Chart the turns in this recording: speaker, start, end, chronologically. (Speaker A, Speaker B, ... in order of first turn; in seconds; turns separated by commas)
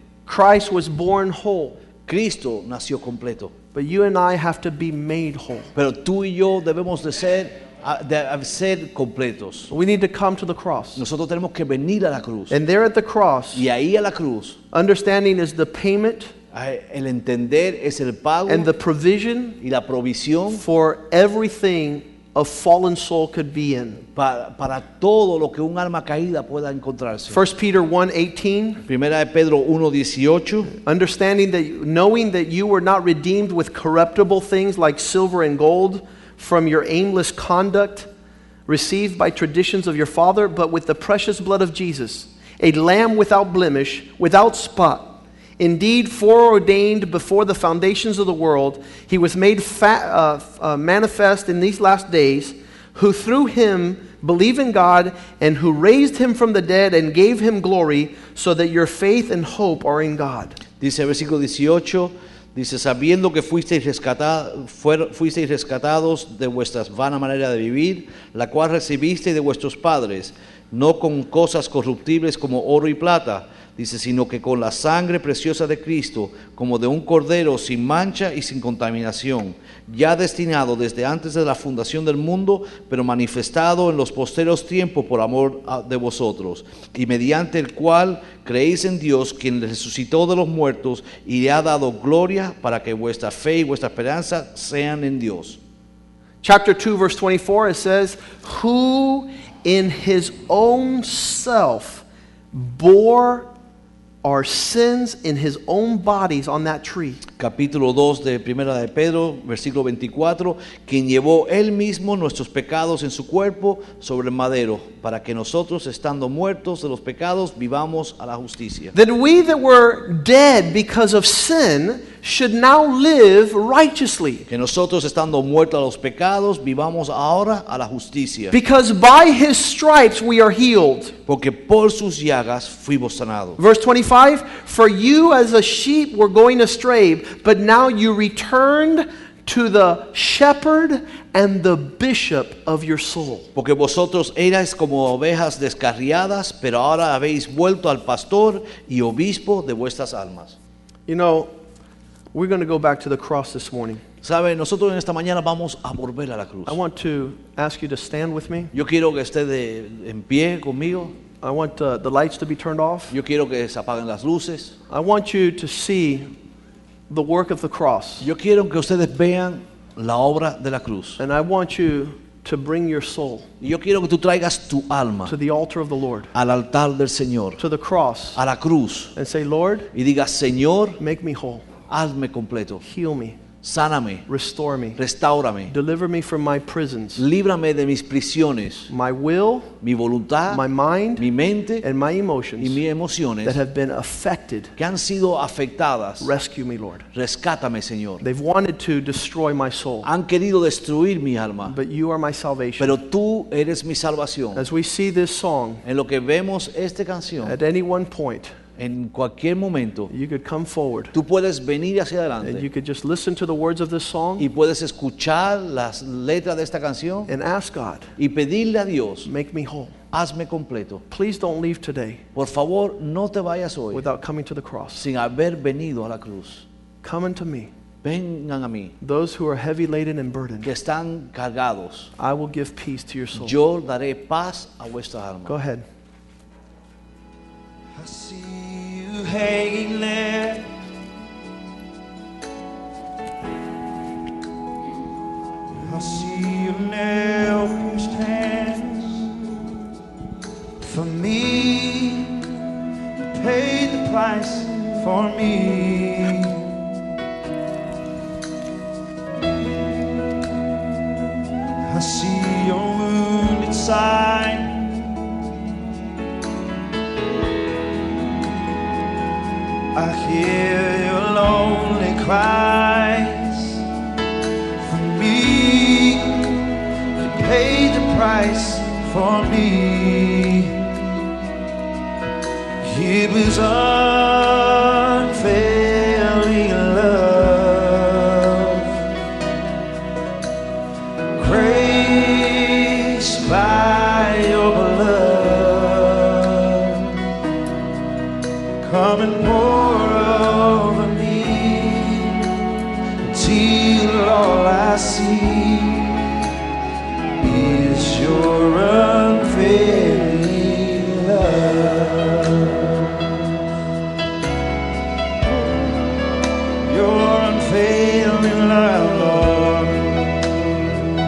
Speaker A: 0.3-1.8, Speaker B: 2.1-3.5, Speaker A: 3.7-5.7, Speaker B: 5.8-9.7, Speaker A: 9.7-11.0, Speaker B: 11.0-12.6, Speaker A: 12.5-13.7, Speaker B: 13.5-14.6, Speaker A: 14.7-16.3, Speaker B: 16.5-18.7, Speaker A: 18.5-19.6, Speaker B: 19.6-20.6, Speaker A: 20.5-24.0, Speaker B: 24.1-27.4, Speaker A: 27.3-28.8, Speaker B: 28.9-30.7, Speaker A: 30.8-38.1, Speaker A: 38.7-60.6, Speaker B: 60.8-95.6, Speaker A: 96.4-103.5, Speaker A: 104.2-107.2, Speaker B: 107.4-119.0, Speaker A: 119.0-124.5, Speaker B: 124.5-128.6, Speaker A: 128.5-131.2, Speaker B: 131.3-133.6, Speaker A: 133.6-143.5, Speaker B: 143.6-150.6, Speaker A: 151.1-151.5, Speaker A: 152.3-154.0, Speaker B: 154.2-156.8, Speaker A: 156.7-158.7, Speaker B: 158.7-161.2, Speaker A: 161.4-163.2, Speaker B: 163.1-164.8, Speaker A: 164.9-166.3, Speaker A: 167.1-168.3, Speaker B: 168.2-171.2, Speaker A: 171.2-173.5, Speaker B: 173.6-175.3, Speaker A: 175.3-176.3, Speaker B: 176.3-177.6, Speaker A: 177.6-178.4, Speaker B: 178.4-179.1, Speaker A: 179.2-179.9, Speaker B: 179.9-181.0, Speaker A: 181.0-181.7, Speaker B: 181.9-182.8, Speaker A: 182.8-183.4, Speaker B: 183.6-184.3, Speaker A: 184.3-185.0, Speaker B: 185.0-185.7, Speaker A: 185.7-187.2, Speaker B: 187.2-188.9, Speaker A: 188.9-189.7, Speaker B: 189.8-190.6, Speaker A: 190.5-191.3, Speaker B: 191.2-191.8, Speaker A: 191.8-192.8, Speaker B: 192.6-193.6, Speaker A: 193.4-194.7, Speaker B: 194.8-196.3, Speaker A: 196.2-197.1, Speaker B: 197.1-198.2, Speaker A: 198.2-200.1, Speaker B: 200.0-201.8, Speaker A: 201.7-202.9, Speaker B: 202.8-204.6, Speaker A: 204.5-205.8, Speaker B: 205.8-207.6, Speaker A: 207.4-208.6, Speaker B: 208.8-210.1, Speaker A: 210.1-211.1, Speaker B: 211.1-212.7, Speaker A: 212.4-214.5, Speaker B: 214.4-217.3, Speaker A: 217.3-218.1, Speaker B: 218.2-219.3, Speaker A: 219.2-220.0, Speaker B: 220.1-221.0, Speaker A: 221.1-222.2, Speaker B: 222.3-224.1, Speaker A: 223.9-225.0, Speaker B: 225.0-226.7, Speaker A: 227.0-227.7, Speaker B: 228.0-228.9, Speaker A: 229.0-230.7, Speaker B: 230.6-232.1, Speaker A: 232.2-233.6, Speaker B: 233.3-235.6, Speaker A: 235.5-235.8, Speaker C: 237.9-240.7, Speaker C: 245.8-249.4, Speaker C: 250.8-252.4, Speaker C: 253.3-257.0, Speaker C: 261.9-265.2, Speaker C: 269.9-273.8, Speaker C: 274.8-276.7, Speaker C: 277.2-281.3, Speaker C: 282.8-289.1, Speaker C: 291.4-297.4, Speaker C: 298.8-302.6, Speaker C: 303.2-306.4, Speaker C: 307.4-313.4, Speaker C: 316.8-320.4